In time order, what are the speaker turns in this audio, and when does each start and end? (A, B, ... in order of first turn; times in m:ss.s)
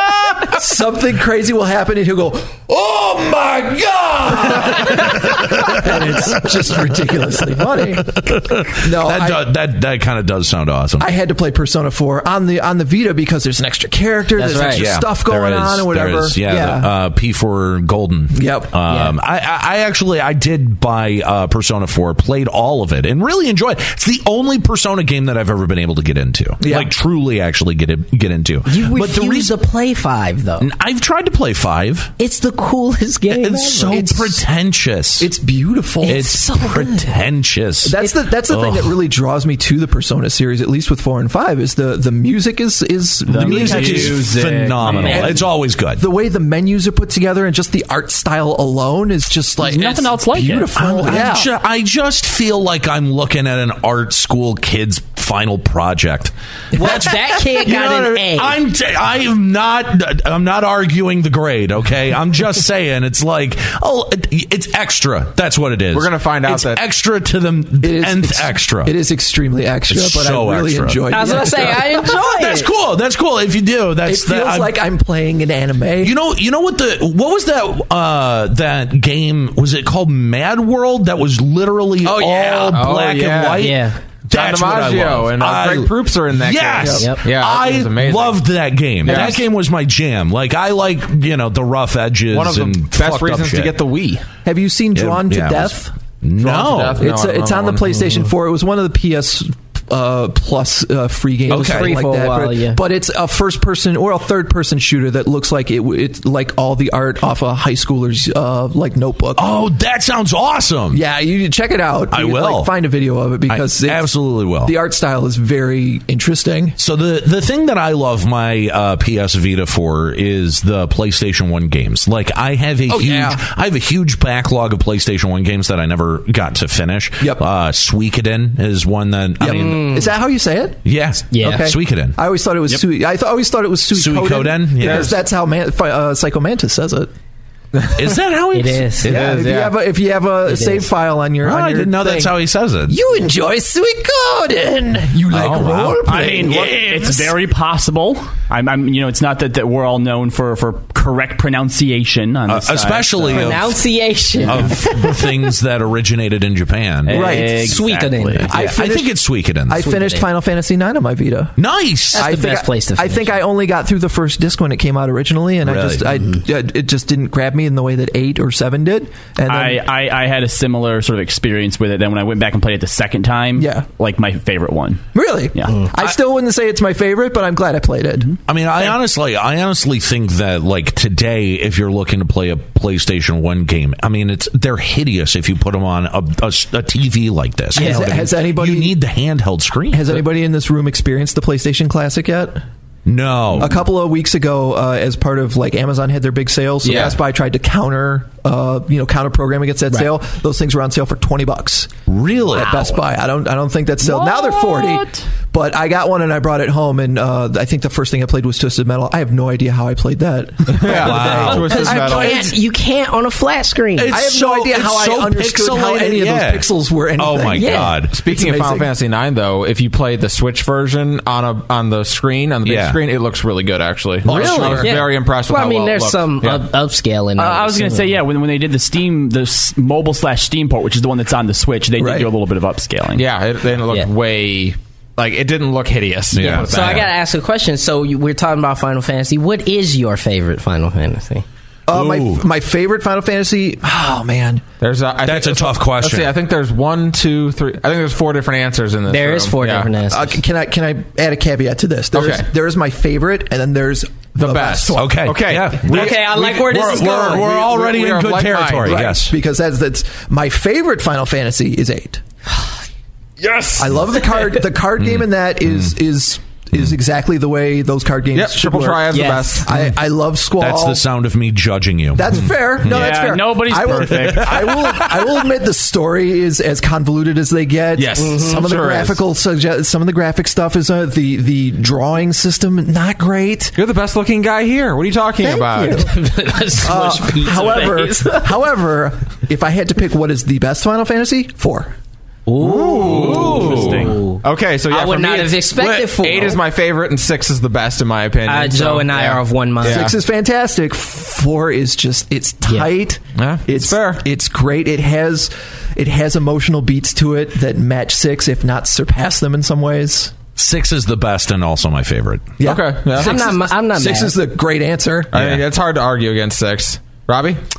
0:00.5-0:08.2 A
0:05.3-0:06.3 B
0:08.1-0:11.1 B
0:08.8-0:09.5 A
0:11.0-0:16.9 A
0:14.4-0:14.8 C
0:14.7-0:29.6 B
0:18.3-0:18.7 A
0:18.9-0:19.1 C
0:26.6-0:26.9 A
0:28.7-0:30.7 C
0:30.6-0:32.1 B
0:32.2-0:34.3 C
0:33.3-0:35.3 B
0:35.2-0:36.9 A
0:36.0-0:37.2 C
0:36.0-0:39.0 B
0:37.8-0:45.4 A
0:43.3-0:45.4 D
0:43.4-0:46.0 B
0:46.0-0:51.5 A
0:49.6-0:50.7 D
0:50.8-1:08.9 B
0:56.7-0:58.6 C
1:05.9-1:06.8 E
1:07.8-1:12.1 A
1:09.9-1:14.7 B
1:11.1-1:12.7 C
1:14.0-1:16.1 A
1:16.0-1:33.7 B
1:22.0-1:23.7 E
1:23.6-1:24.0 C
1:24.3-1:28.4 E
1:26.8-1:27.1 A
1:29.0-1:29.4 E
1:32.3-1:34.2 E
1:34.4-1:35.9 A
1:35.0-1:37.1 B
1:36.4-1:38.0 E
1:37.0-1:49.6 A
1:41.5-1:42.8 C
1:41.5-1:42.0 B
1:49.4-1:51.0 B
1:50.9-1:54.1 A
1:52.1-1:52.7 B
1:53.5-1:54.7 B
1:54.6-1:56.8 A
1:56.8-2:09.8 B
2:02.9-2:03.4 A
2:09.4-2:10.8 A
2:09.4-2:10.1 C
2:10.8-2:12.2 B
2:11.3-2:11.7 C
2:11.4-2:17.1 A
2:13.9-2:15.2 B
2:14.8-2:15.1 E
2:18.0-2:19.4 B
2:18.5-2:19.2 C
2:19.0-2:22.4 A
2:19.1-2:19.8 E
2:20.5-2:20.9 C
2:21.4-2:23.0 B
2:22.9-2:27.1 A
2:25.3-2:27.3 B
2:26.0-2:33.6 D
2:32.5-2:33.8 B
2:33.3-2:35.2 C
2:34.4-2:34.8 D
2:34.4-2:37.4 B
2:37.0-2:38.5 D
2:37.1-2:37.8 A
2:37.1-2:38.5 C
2:38.5-2:41.5 A
2:38.5-2:39.9 B
2:39.7-2:40.2 C
2:41.6-2:42.3 B
2:42.1-2:49.8 A
2:42.2-2:43.4 C
2:45.6-2:46.1 B
2:49.5-2:55.9 D
2:53.6-2:53.9 A
2:55.1-2:58.4 A
2:58.5-3:10.2 B
3:07.7-3:09.0 A
3:07.8-3:08.1 C
3:09.9-3:12.6 A
3:13.0-3:13.8 B
3:13.6-3:21.9 A
3:16.8-3:17.2 E
3:22.1-3:22.8 B
3:22.5-3:32.5 A
3:24.0-3:25.3 D
3:30.7-3:32.4 E
3:30.7-3:32.2 B
3:31.4-3:34.3 C
3:34.0-3:38.2 B
3:34.1-3:38.9 A
3:37.6-3:37.9 C
3:38.1-3:46.7 E
3:42.6-3:43.0 B
3:44.2-3:45.0 B
3:44.3-3:44.8 A
3:44.8-3:48.1 C
3:47.4-3:53.2 D
3:52.0-3:52.3 A
3:53.1-3:57.1 E
3:56.3-3:57.1 B
3:56.5-4:01.4 C
4:01.9-4:04.6 A
4:01.9-4:02.4 B
4:04.8-4:09.9 E
4:05.2-4:06.3 B
4:09.1-4:10.4 C
4:10.1-4:15.2 A
4:12.1-4:12.5 E
4:14.4-4:16.2 E
4:14.9-4:19.4 B
4:15.8-4:17.5 C
4:17.3-4:19.0 E
4:18.8-4:22.2 A
4:23.4-4:24.2 E
4:23.8-4:31.0 A
4:25.0-4:25.9 B
4:28.4-4:29.7 E
4:29.1-4:29.6 C
4:30.6-4:33.4 B
4:32.1-4:43.8 A
4:32.9-4:35.1 D
4:34.0-4:34.6 B
4:38.0-4:39.2 E
4:38.2-4:38.6 C
4:43.8-4:46.1 E
4:45.4-4:48.6 C
4:46.8-4:51.9 A
4:52.5-4:56.6 C
4:52.6-5:00.2 E
4:53.0-4:53.9 B
4:53.5-4:54.2 D
4:58.4-5:00.1 C
4:59.8-5:10.3 A
5:02.6-5:02.9 C
5:03.4-5:04.2 E
5:10.6-5:12.6 B
5:12.6-5:15.3 A
5:12.6-5:13.5 E
5:13.1-5:14.4 C
5:15.3-5:17.6 E
5:15.4-5:15.6 B